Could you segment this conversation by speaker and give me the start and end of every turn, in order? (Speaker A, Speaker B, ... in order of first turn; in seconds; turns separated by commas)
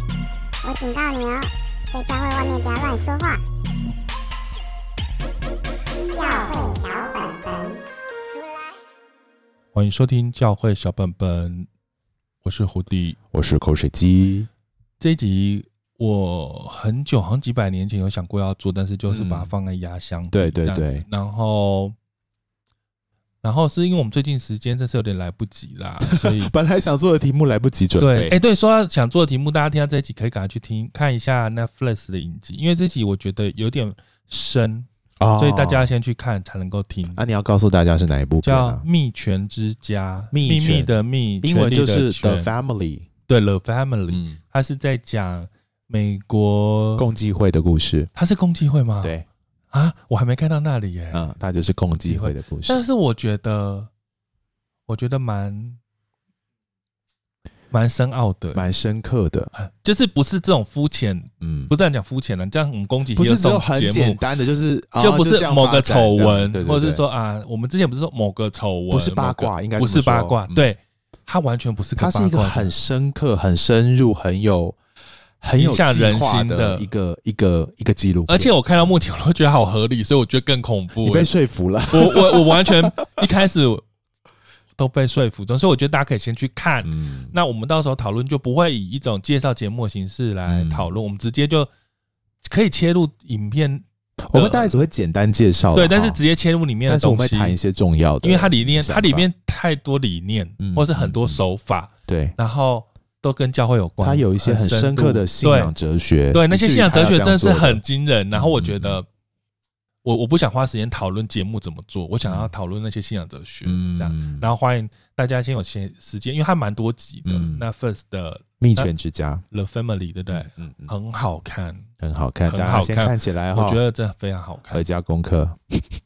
Speaker A: 0.6-3.4, Speaker A: 6.1-7.8, Speaker B: 9.7-11.7, Speaker B: 12.4-13.2, Speaker C: 13.3-14.5, Speaker B: 15.0-21.9, Speaker C: 19.1-19.5, Speaker C: 20.3-21.0, Speaker B: 23.4-26.5, Speaker C: 26.1-28.4, Speaker B: 28.0-37.2, Speaker C: 35.2-35.9, Speaker C: 37.2-38.9, Speaker B: 38.4-42.5, Speaker C: 40.3-40.9, Speaker C: 41.4-43.1, Speaker B: 43.3-47.1, Speaker C: 44.1-44.4, Speaker C: 47.0-48.1, Speaker B: 48.2-49.1, Speaker B: 49.7-51.3, Speaker C: 51.1-52.8, Speaker B: 52.0-53.9, Speaker B: 54.9-55.8, Speaker B: 57.7-58.6, Speaker C: 58.5-59.5, Speaker B: 59.5-64.2, Speaker C: 61.4-61.7, Speaker C: 63.2-67.0, Speaker B: 65.0-72.7, Speaker C: 68.9-70.6, Speaker C: 72.0-74.8, Speaker C: 75.4-78.5, Speaker B: 75.6-76.9, Speaker B: 78.3-81.3, Speaker C: 81.0-83.3, Speaker B: 81.9-83.8, Speaker B: 84.8-91.7, Speaker C: 86.8-87.3, Speaker C: 90.5-90.9, Speaker B: 92.4-94.7, Speaker C: 94.2-96.2, Speaker B: 95.7-97.6, Speaker C: 96.9-99.3, Speaker B: 98.2-105.7, Speaker C: 100.6-101.4, Speaker C: 102.1-102.4, Speaker C: 104.0-107.8, Speaker B: 106.3-109.1, Speaker C: 108.3-109.0, Speaker B: 110.0-118.9, Speaker C: 112.3-112.5, Speaker C: 113.7-114.5, Speaker C: 117.3-117.7, Speaker C: 118.6-119.5, Speaker B: 119.5-121.9, Speaker C: 120.3-120.9, Speaker C: 122.0-123.8, Speaker B: 122.5-124.8, Speaker C: 124.7-125.9